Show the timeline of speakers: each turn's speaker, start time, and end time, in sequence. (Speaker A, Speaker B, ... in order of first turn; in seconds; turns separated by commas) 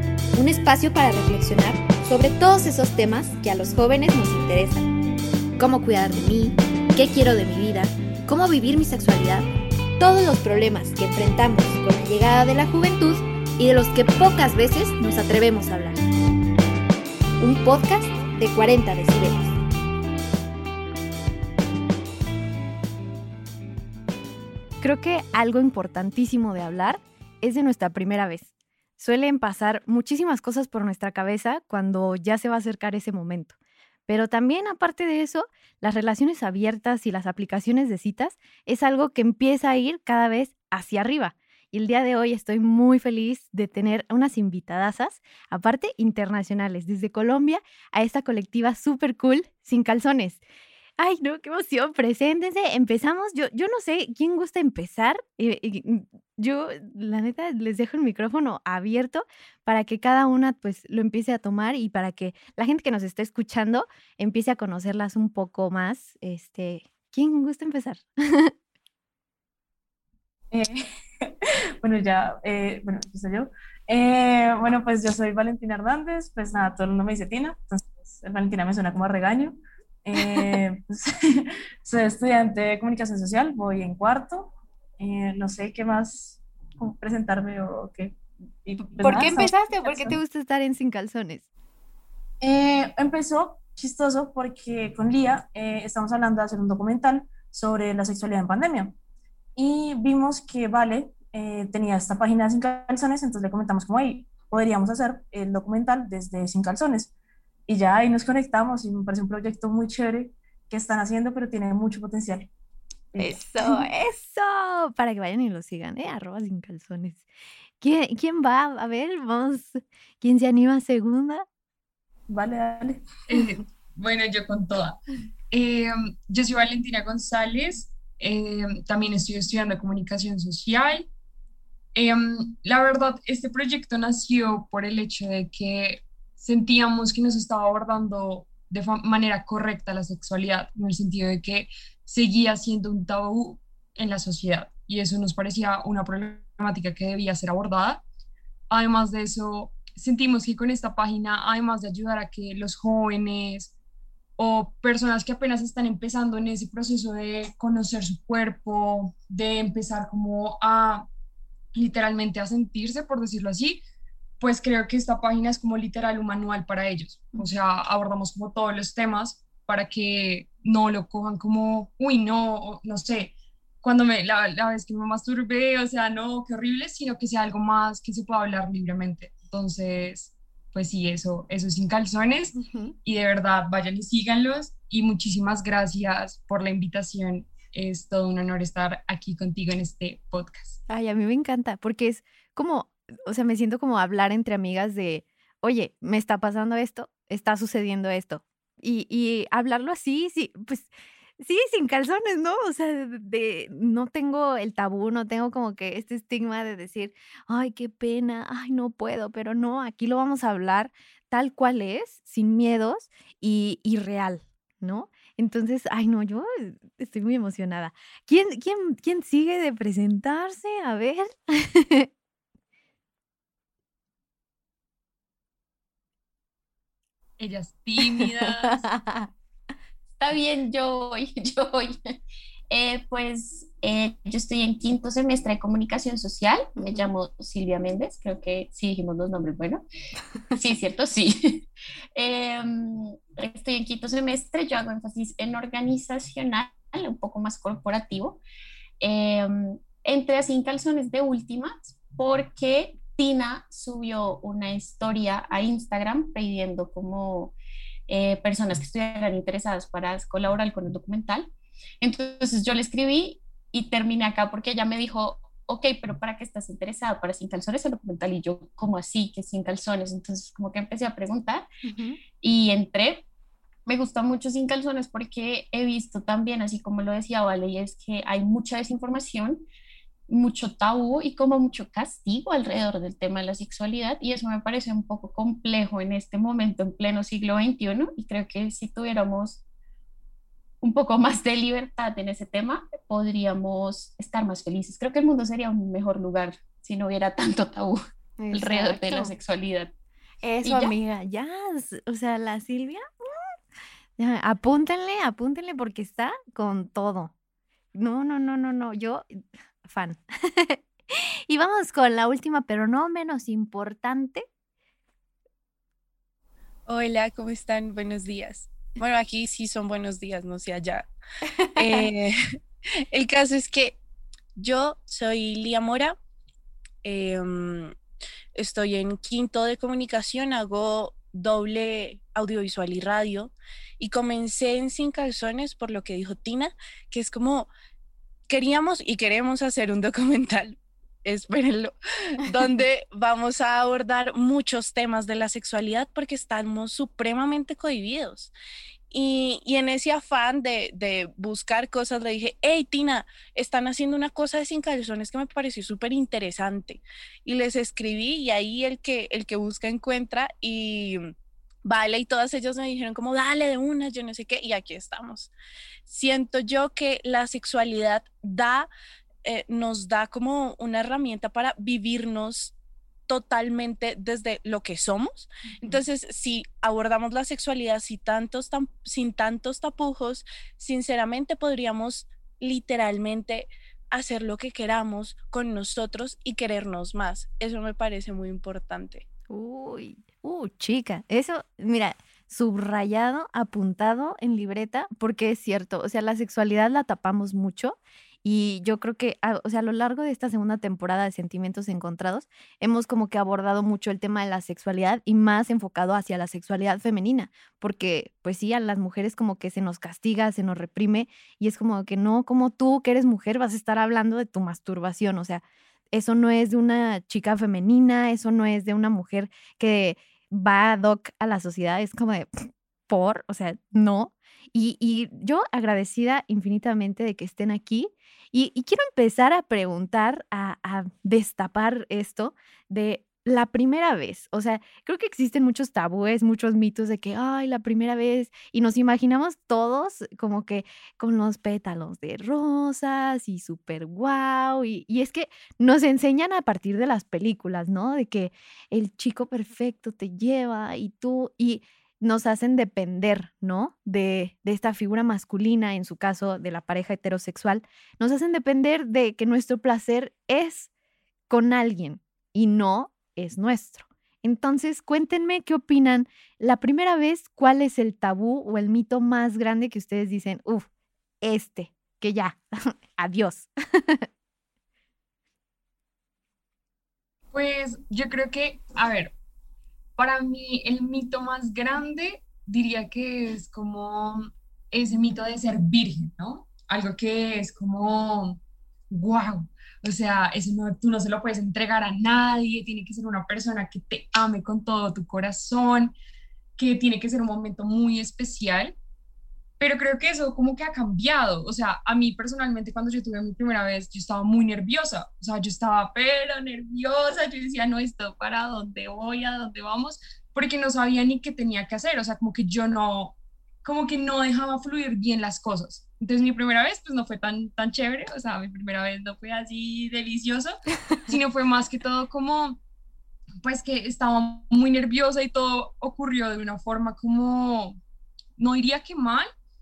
Speaker A: 0.3-4.9, Speaker A: 5.6-9.5, Speaker A: 10.0-16.0, Speaker A: 17.4-19.6, Speaker A: 24.8-33.5, Speaker A: 34.1-50.4, Speaker A: 51.0-68.5, Speaker B: 70.5-90.2, Speaker A: 89.0-91.5, Speaker B: 92.4-98.9, Speaker B: 99.5-107.1, Speaker B: 107.7-112.5, Speaker B: 113.1-113.9, Speaker A: 113.2-117.2, Speaker A: 117.8-121.4, Speaker B: 122.3-123.1, Speaker C: 123.3-125.0, Speaker C: 125.5-131.1, Speaker C: 131.9-148.0, Speaker C: 148.7-153.7, Speaker C: 154.4-161.1, Speaker C: 161.7-163.8, Speaker C: 164.4-190.8, Speaker A: 182.6-182.9, Speaker A: 190.9-222.1, Speaker C: 227.4-228.9, Speaker A: 228.2-229.3, Speaker D: 230.2-232.0, Speaker D: 232.7-239.8, Speaker A: 236.8-237.1, Speaker D: 240.5-241.6, Speaker D: 242.2-248.4, Speaker D: 249.0-257.5, Speaker D: 258.1-261.5, Speaker D: 262.0-271.7, Speaker A: 271.8-272.2, Speaker D: 272.4-273.2, Speaker D: 273.9-279.6, Speaker D: 280.3-289.6, Speaker D: 290.8-298.0, Speaker A: 298.4-299.3, Speaker D: 298.5-299.9, Speaker A: 300.4-303.5, Speaker D: 300.6-300.9, Speaker A: 304.2-307.3, Speaker A: 307.9-314.4, Speaker E: 316.9-321.1, Speaker A: 321.6-322.1, Speaker E: 321.8-322.4, Speaker E: 323.1-324.0, Speaker E: 324.6-326.1, Speaker E: 327.0-327.9, Speaker E: 328.5-337.7, Speaker E: 338.5-348.5, Speaker E: 349.1-361.3, Speaker E: 361.8-365.5, Speaker E: 366.1-368.9, Speaker E: 369.4-372.7, Speaker E: 373.3-389.2, Speaker A: 389.5-460.9, Speaker A: 461.5-470.9, Speaker A: 471.4-474.2, Speaker C: 477.5-479.3, Speaker C: 480.2-488.6, Speaker C: 489.1-496.1, Speaker C: 496.8-498.9, Speaker C: 499.8-522.8, Speaker C: 523.6-528.0, Speaker C: 528.6-529.5